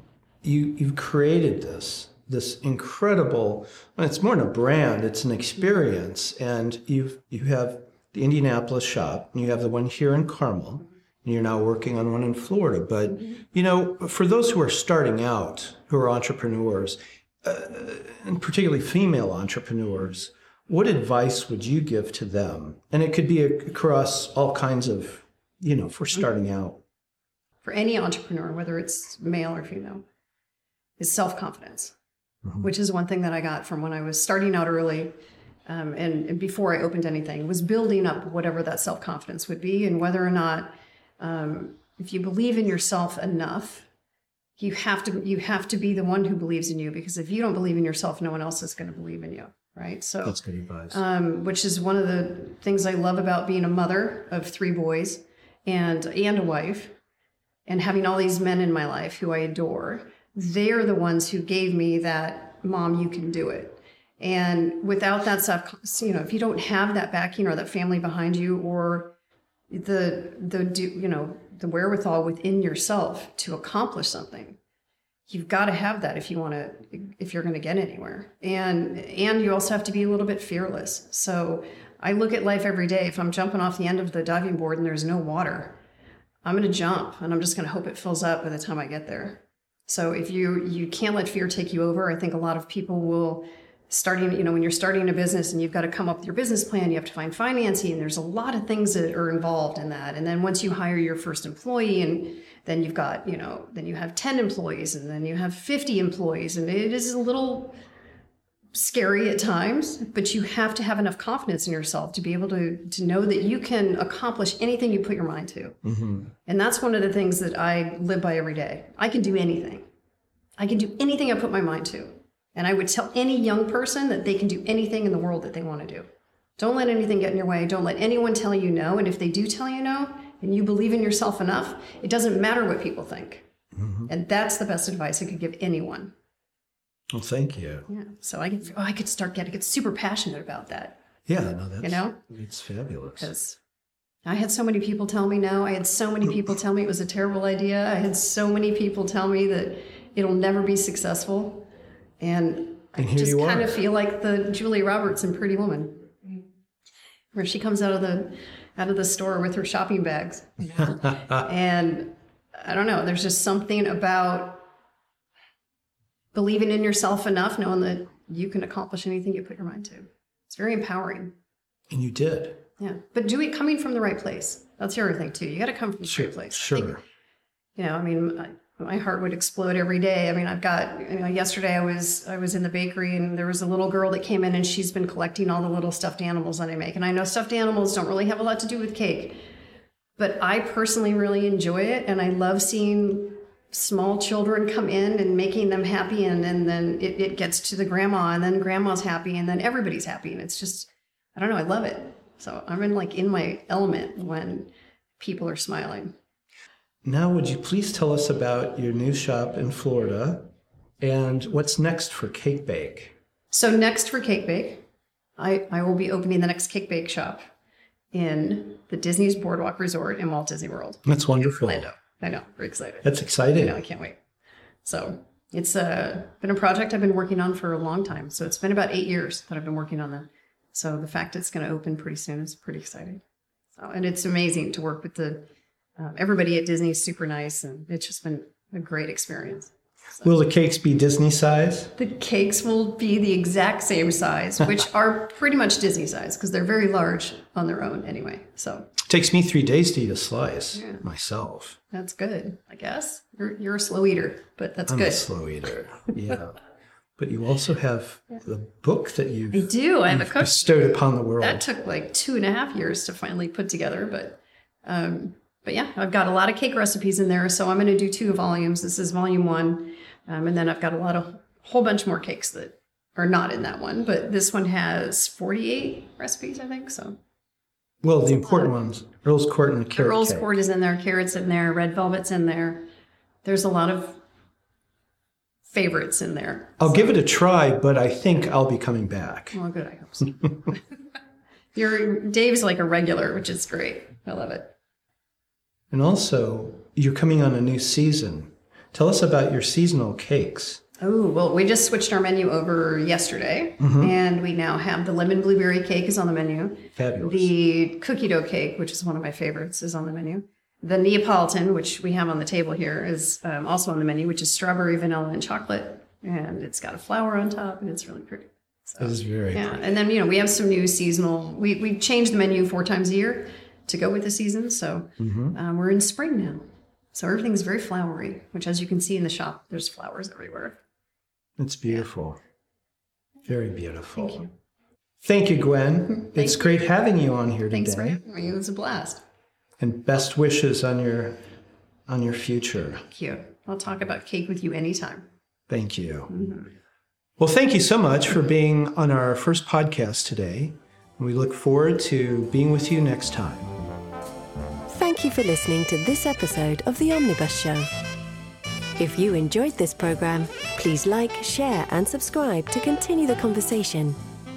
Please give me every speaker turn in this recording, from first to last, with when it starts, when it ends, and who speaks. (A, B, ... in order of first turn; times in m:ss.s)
0:00.4-0:26.8 A
0:27.6-0:30.0 B
0:31.0-0:32.0 B
0:32.6-0:35.1 B
0:35.7-0:43.9 B
0:44.6-0:57.0 B
0:50.2-0:51.0 A
0:57.7-1:09.2 B
1:09.7-1:14.6 B
1:15.3-1:25.8 B
1:26.4-1:47.8 B
1:48.7-1:55.8 B
1:55.8-1:56.3 A
1:56.4-1:59.9 B
2:00.6-2:06.1 B
2:06.6-2:13.5 B
2:13.7-2:14.1 A
2:14.1-2:16.1 B
2:17.1-2:17.9 A
2:17.9-2:21.0 B
2:21.3-2:23.3 A
2:21.8-2:22.2 B
2:23.2-2:23.6 B
2:24.2-2:31.7 B
2:32.2-2:36.1 B
2:33.0-2:33.8 A
2:37.3-2:44.7 B
2:46.3-2:51.4 B
2:51.9-2:52.6 A
2:52.8-2:57.0 B
2:56.0-2:57.0 A
2:57.8-3:09.4 B
3:10.2-3:26.2 B
3:27.0-3:33.2 A
3:33.5-3:34.9 B
3:35.4-3:37.5 B
3:38.1-3:44.2 B
3:41.1-3:41.9 A
3:43.0-3:43.8 A
3:44.8-3:53.2 B
3:53.8-4:00.3 B
4:00.2-4:01.9 A
4:02.0-4:08.9 B
4:09.0-4:11.8 A
4:10.8-4:11.0 B
4:11.9-4:15.3 B
4:14.9-4:16.6 A
4:17.2-4:21.6 A
4:19.5-4:20.9 B
4:21.4-4:37.2 B
4:38.0-4:40.5 A
4:38.3-4:38.7 B
4:39.9-4:42.9 B
4:43.4-4:44.2 B
4:45.6-4:47.2 B
4:46.8-4:49.6 A
4:49.5-4:50.8 B
4:51.7-4:54.8 B
4:55.9-5:00.8 A
5:01.0-5:30.8 B
5:03.8-5:04.1 A
5:07.0-5:07.5 A
5:19.0-5:19.8 A
5:25.2-5:25.6 A
5:31.6-5:32.4 A
5:33.5-5:34.5 A
5:34.2-5:34.5 B
5:35.2-5:38.2 A
5:36.2-5:36.9 B
5:37.7-5:39.2 B
5:39.8-5:41.4 A
5:42.1-5:43.0 A
5:43.0-5:45.3 B
5:45.7-5:46.3 A
5:46.3-5:46.7 B
5:47.4-5:53.8 A
5:54.9-5:57.9 C
5:59.0-6:04.2 C